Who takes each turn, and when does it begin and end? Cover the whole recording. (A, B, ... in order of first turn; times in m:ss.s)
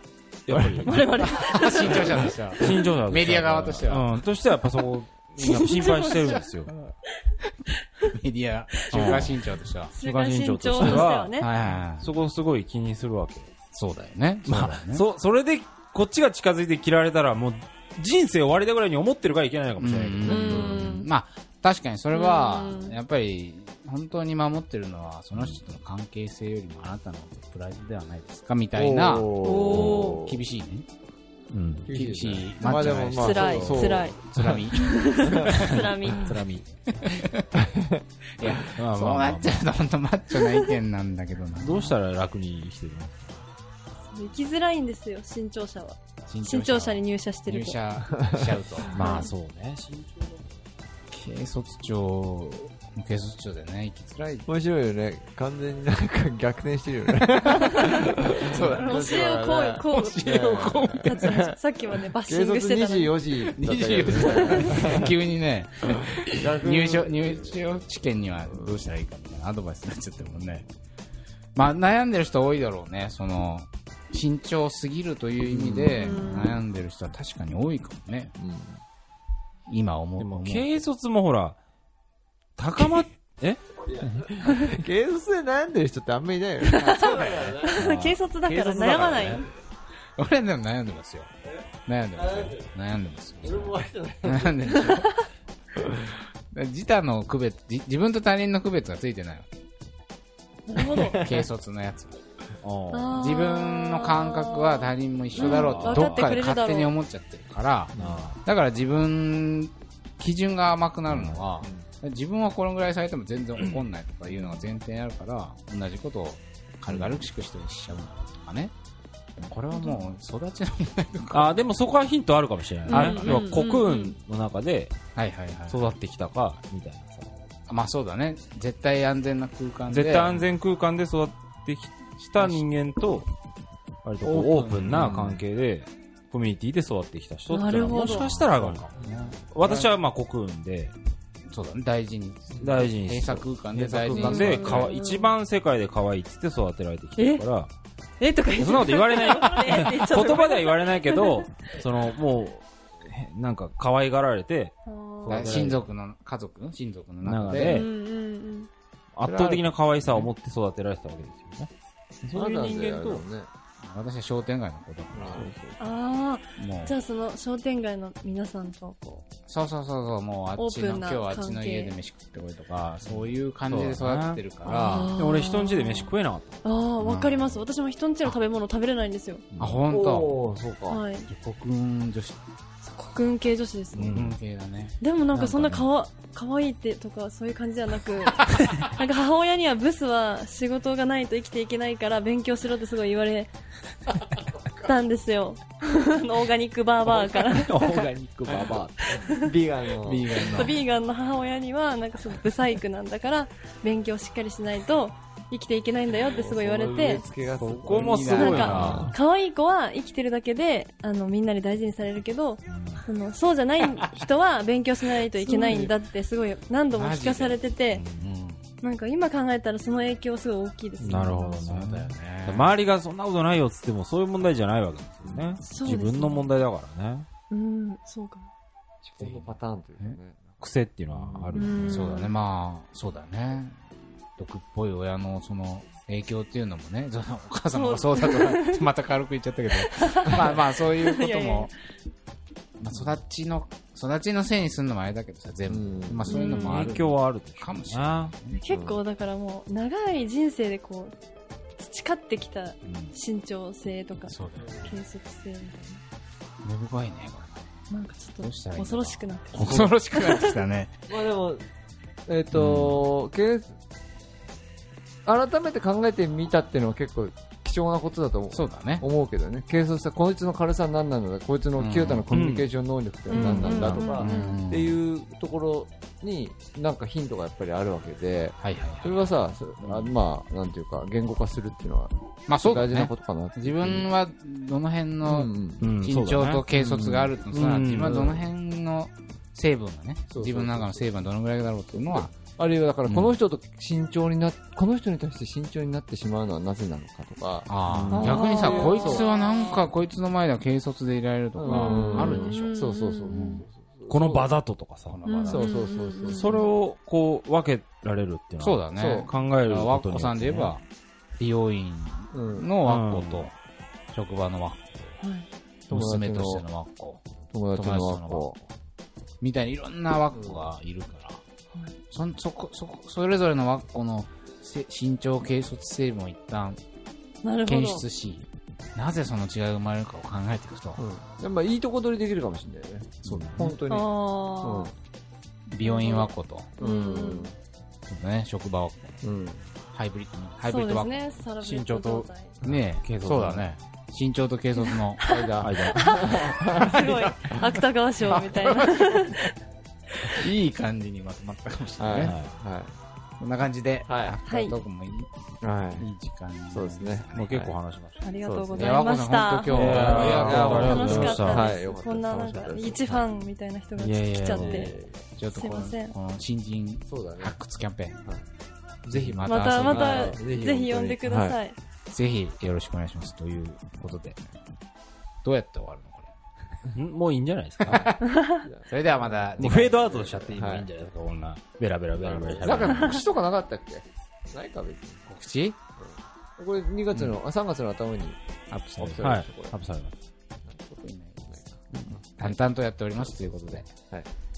0:00.4-0:06.7 A
0:00.5-0:04.2 B
0:00.8-0:02.9 C
0:05.4-0:06.5 C
0:06.0-0:06.4 B
0:08.1-0:09.9 B
0:08.7-0:09.2 C
0:08.9-0:09.4 A
0:09.9-0:11.5 C
0:10.0-0:13.5 A
0:10.8-0:12.1 B
0:13.7-0:15.0 B
0:14.4-0:20.8 A
0:19.8-0:30.9 B
0:20.2-0:21.1 C
0:22.1-0:23.0 C
0:28.7-0:30.4 D
0:29.4-0:30.2 C
0:31.5-0:31.9 A
0:31.9-0:35.6 D
0:31.9-0:35.8 B
0:33.1-0:34.2 C
0:34.7-0:36.3 C
0:35.5-0:37.2 A
0:36.9-0:37.5 B
0:37.6-0:38.0 D
0:38.4-0:41.9 B
0:38.7-0:39.6 A
0:41.5-0:43.4 A
0:44.1-0:47.8 C
0:46.3-0:49.3 B
0:48.1-0:48.6 D
0:48.9-0:50.4 A
0:48.9-0:49.3 C
0:51.1-0:54.5 B
0:54.5-1:01.5 D
0:58.5-0:59.0 B
0:58.6-1:03.1 C
0:59.9-1:01.4 B
1:02.2-1:05.1 D
1:03.5-1:10.6 B
1:04.2-1:04.7 C
1:05.9-1:07.6 D
1:08.5-1:08.8 D
1:11.5-1:18.3 B
1:15.4-1:16.2 D
1:16.0-1:16.6 C
1:18.4-1:18.8 D
1:19.7-1:20.8 B
1:20.2-1:21.6 A
1:22.6-1:23.6 A
1:23.9-1:27.8 D
1:24.0-1:24.3 B
1:26.6-1:29.5 C
1:26.8-1:27.6 B
1:27.7-1:29.5 A
1:30.2-1:31.3 B
1:31.8-1:35.1 B
1:32.1-1:32.6 D
1:33.4-1:35.0 D
1:35.8-1:36.2 D
1:36.5-1:39.5 B
1:40.7-1:41.2 C
1:40.8-1:41.4 D
1:41.1-1:42.2 B
1:42.6-1:43.3 A
1:42.9-1:46.9 C
1:43.1-1:47.9 B
1:45.3-1:46.4 A
1:47.9-1:48.2 D
1:47.9-1:48.4 A
1:48.4-1:58.7 B
1:51.1-1:51.8 A
1:59.4-2:01.6 B
1:59.7-2:00.0 C
2:01.3-2:05.0 A
2:02.9-2:04.1 C
2:02.9-2:03.6 B
2:05.2-2:06.0 B
2:05.7-2:07.4 A
2:07.7-2:10.5 B
2:09.9-2:13.3 A
2:12.4-2:12.6 B
2:14.0-2:20.9 A
2:14.2-2:15.2 B
2:14.3-2:15.4 D
2:17.5-2:18.3 C
2:18.4-2:19.9 B
2:18.6-2:19.4 D
2:21.5-2:24.9 B
2:22.6-2:27.7 A
2:24.1-2:25.4 C
2:27.2-2:27.4 C
2:28.2-2:31.7 C
2:28.6-2:35.8 A
2:34.8-2:35.5 C
2:35.2-2:37.8 B
2:37.2-2:37.9 A
2:37.6-2:38.7 C
2:39.1-2:41.7 A
2:39.2-2:40.3 B
2:42.2-2:43.2 A
2:42.3-2:43.5 D
2:43.8-2:45.5 B
2:45.1-2:45.9 D
2:45.8-2:49.2 C
2:46.6-2:47.0 B
2:49.4-2:55.1 B
2:50.6-2:51.9 C
2:53.0-2:56.6 A
2:54.6-2:56.1 C
2:56.6-2:59.4 C
2:57.0-2:57.6 B
2:59.6-2:59.8 A
2:59.6-3:00.4 B
2:59.9-3:01.0 D
3:00.9-3:01.3 C
3:01.2-3:02.4 B
3:02.8-3:04.1 C
3:04.0-3:04.4 A
3:04.1-3:05.8 B
3:05.0-3:13.5 C
3:05.3-3:05.8 A
3:14.8-3:18.0 C
3:17.0-3:20.7 D
3:17.4-3:18.9 A
3:19.0-3:19.5 C
3:20.0-3:20.8 B
3:20.3-3:27.2 C
3:26.2-3:29.1 D
3:27.6-3:29.1 A
3:27.8-3:29.1 B
3:28.3-3:38.0 C
3:32.7-3:33.0 A
3:35.4-3:35.9 D
3:36.9-3:37.6 B
3:37.9-3:38.3 A
3:38.2-3:38.6 B
3:38.8-3:41.6 C
3:41.0-3:47.3 A
3:41.6-3:42.8 B
3:45.2-3:45.6 D
3:45.6-3:46.5 C
3:47.5-3:48.5 C
3:49.0-3:50.6 D
3:49.2-3:50.2 B
3:50.6-3:52.1 A
3:51.1-3:51.7 D
3:51.5-3:52.3 C
3:51.9-3:53.8 B
3:54.4-4:01.7 B
3:57.7-3:58.9 C
3:59.8-4:01.8 C
4:02.8-4:08.6 B
4:05.7-4:06.4 D
4:06.3-4:06.8 C
4:06.5-4:08.3 A
4:08.5-4:11.1 C
4:08.7-4:09.0 D
4:11.8-4:16.0 C
4:12.8-4:13.1 A
4:14.3-4:15.0 B
4:14.6-4:14.9 D
4:16.6-4:17.7 B
4:17.9-4:20.6 C
4:18.4-4:20.9 B
4:21.1-4:21.6 D
4:22.3-4:23.8 D
4:22.5-4:22.8 A
4:22.6-4:23.0 B
4:25.2-4:44.0 D
4:28.5-4:29.0 B
4:31.8-4:32.3 B
4:32.3-4:32.7 A
4:33.3-4:34.6 C
4:33.3-4:35.0 B
4:38.6-4:39.3 B
4:39.8-4:40.1 A
4:42.5-4:52.4 B
4:45.2-4:45.9 D
4:45.8-4:46.6 A
4:46.7-4:47.4 D
4:47.5-4:48.3 A
4:48.0-4:48.4 D
4:50.3-4:51.1 D
4:52.0-4:59.7 D
4:53.0-4:53.4 B
4:57.7-5:02.7 B
4:57.8-4:58.4 A
4:58.1-4:59.8 C
5:01.6-5:04.5 D
5:01.6-5:03.6 C
5:03.3-5:03.6 B
5:04.1-5:05.2 A
5:05.1-5:05.6 B
5:05.2-5:06.6 C
5:05.5-5:06.6 D
5:06.2-5:10.8 A
5:08.6-5:10.8 B
5:09.0-5:09.3 D
5:11.4-5:13.5 B
5:12.3-5:12.7 D
5:12.8-5:13.5 A
5:14.1-5:15.2 B
5:15.2-5:15.5 C
5:15.9-5:16.6 D
5:15.9-5:18.5 B
5:17.5-5:18.6 D
5:19.4-5:21.4 B
5:20.3-5:20.7 D
5:22.1-5:26.8 B
5:27.4-5:28.0 C
5:27.6-5:31.0 B
5:31.0-5:34.1 D
5:33.2-5:33.6 B
5:33.3-5:33.7 A
5:33.9-5:34.9 C
5:34.6-5:34.9 D
5:35.7-5:36.7 B
5:35.8-5:37.5 C
5:36.8-5:37.6 D
5:38.1-5:39.2 B
5:39.2-5:39.6 D
5:39.9-5:41.2 B
5:40.6-5:42.5 C
5:41.6-5:43.7 A
5:42.6-5:47.6 B
5:45.2-5:49.4 C
5:45.6-5:46.5 A
5:46.2-5:47.0 D
5:48.4-5:49.5 B
5:50.2-5:52.4 B
5:52.0-5:53.0 D
5:52.1-5:52.5 A
5:53.4-5:55.3 B
5:54.1-5:54.4 D
5:54.4-5:54.7 C
5:55.6-5:56.1 D
5:56.0-5:57.5 B
5:56.7-5:57.7 D
5:57.3-5:58.2 A
5:58.2-6:04.9 C
5:58.4-5:59.0 D
5:58.7-6:01.4 B
5:59.7-6:01.7 A
5:59.9-6:03.3 D
6:04.0-6:05.0 A
6:04.5-6:05.2 D
6:05.4-6:08.2 B
6:05.5-6:06.2 C
6:07.1-6:07.6 D
6:09.0-6:11.6 D
6:09.1-6:10.4 B
6:09.4-6:11.8 C
6:12.1-6:14.4 B
6:15.4-6:16.3 B
6:16.9-6:18.2 A
6:17.8-6:18.2 B
6:18.2-6:18.6 C
6:18.6-6:20.9 D
6:18.8-6:20.2 B
6:19.6-6:23.2 A
6:22.2-6:25.2 D
6:25.3-6:25.8 B
6:26.0-6:28.4 D
6:28.7-6:29.3 B
6:29.0-6:29.7 D
6:29.2-6:30.1 A
6:30.6-6:32.6 D
6:31.0-6:31.6 B
6:32.4-6:33.9 B
6:33.7-6:34.3 D